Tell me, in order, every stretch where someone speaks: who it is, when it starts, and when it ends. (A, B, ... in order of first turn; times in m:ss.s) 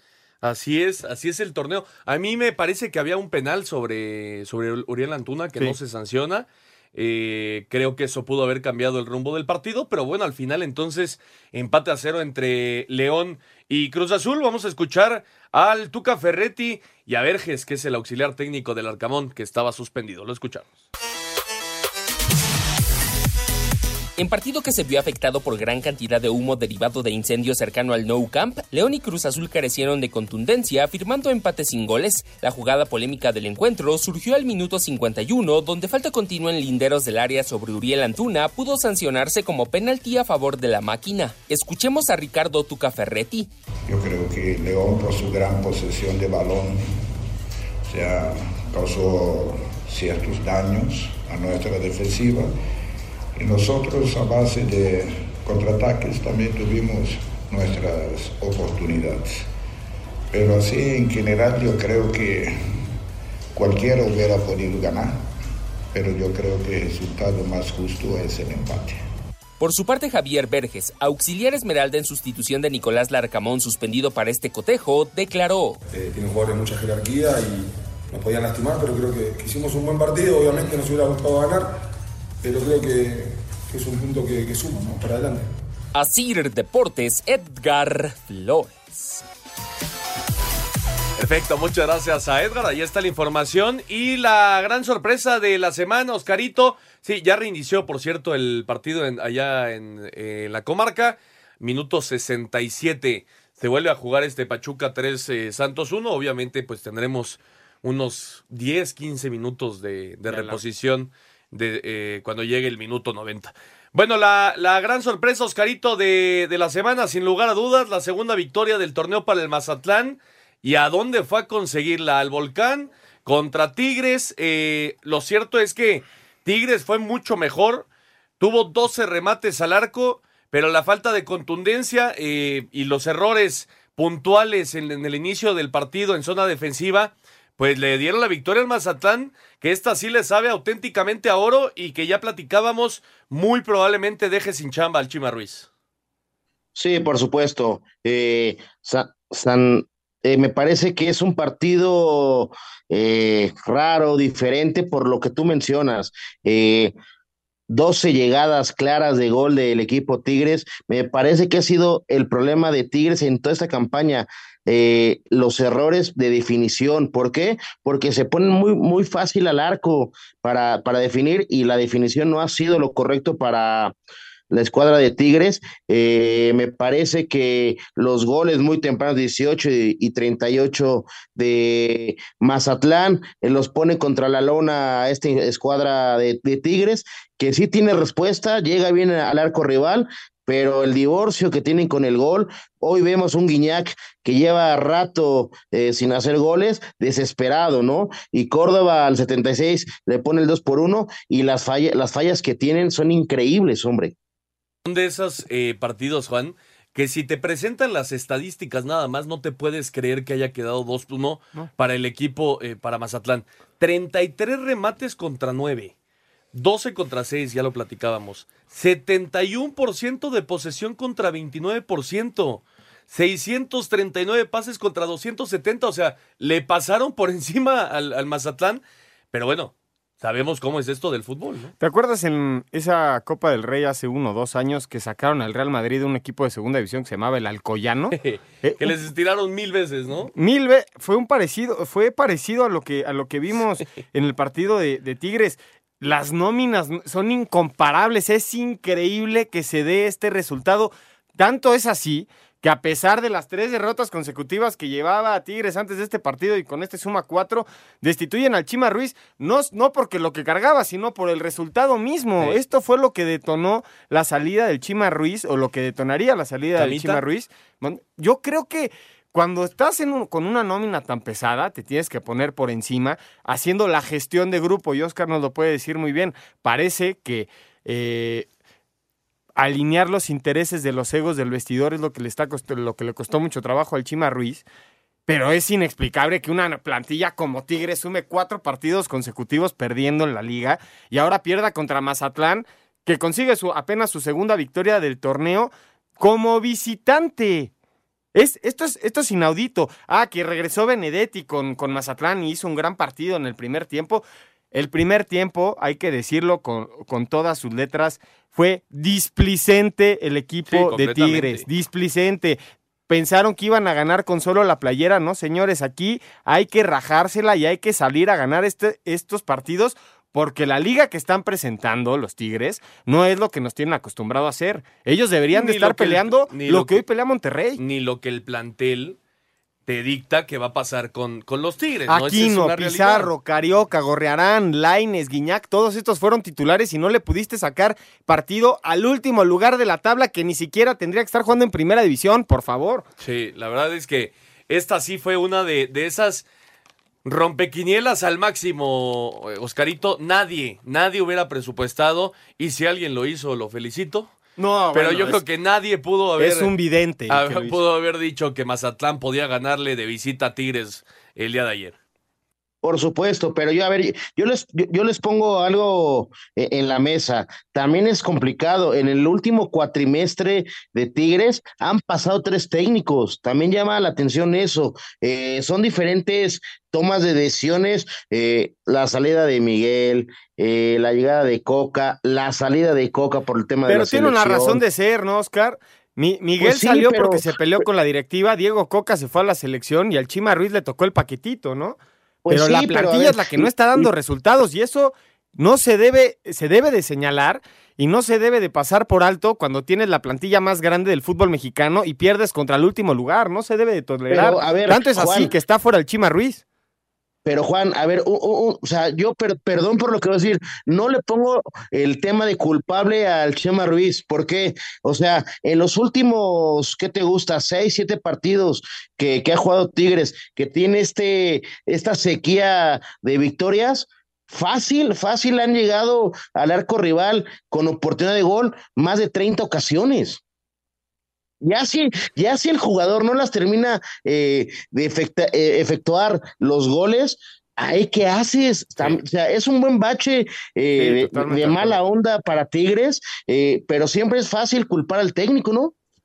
0:00.4-0:20.7 A
0:24.2-0:43.5 B
0:43.9-0:47.0 C
0:47.9-0:52.5 C
0:53.4-0:59.5 C
1:00.3-1:02.8 C
1:03.5-1:05.2 C
1:05.9-1:09.0 C
1:09.6-1:15.8 B
1:15.9-1:21.8 D
1:22.4-1:25.5 D
1:26.0-1:29.2 B
1:31.2-2:07.9 A
1:50.3-1:50.6 E
2:08.4-2:25.7 A
2:26.8-2:36.9 F
2:37.7-2:53.9 F
2:54.5-3:24.1 F
3:24.9-3:35.9 A
3:36.5-3:51.7 A
3:51.8-3:58.9 E
3:58.1-4:00.3 A
4:00.3-4:38.5 E
4:26.8-4:27.2 A
4:39.6-4:44.6 E
4:45.3-4:57.7 E
4:58.4-5:27.8 E
5:10.7-5:11.7 A
5:25.5-5:27.0 A
5:27.8-5:29.2 A
5:29.9-5:33.3 A
5:32.1-5:43.1 E
5:43.2-5:46.5 A
5:47.2-5:54.3 A
5:54.6-5:55.4 E
5:54.9-5:56.7 A
5:56.4-5:57.8 E
5:57.3-6:02.0 A
6:02.8-6:24.8 F
6:23.9-6:32.0 E
6:26.6-6:27.5 F
6:32.4-6:34.1 F
6:32.5-6:46.6 E
6:44.3-6:45.5 F
6:47.5-7:10.4 F
7:11.6-7:25.9 F
7:21.0-7:22.0 E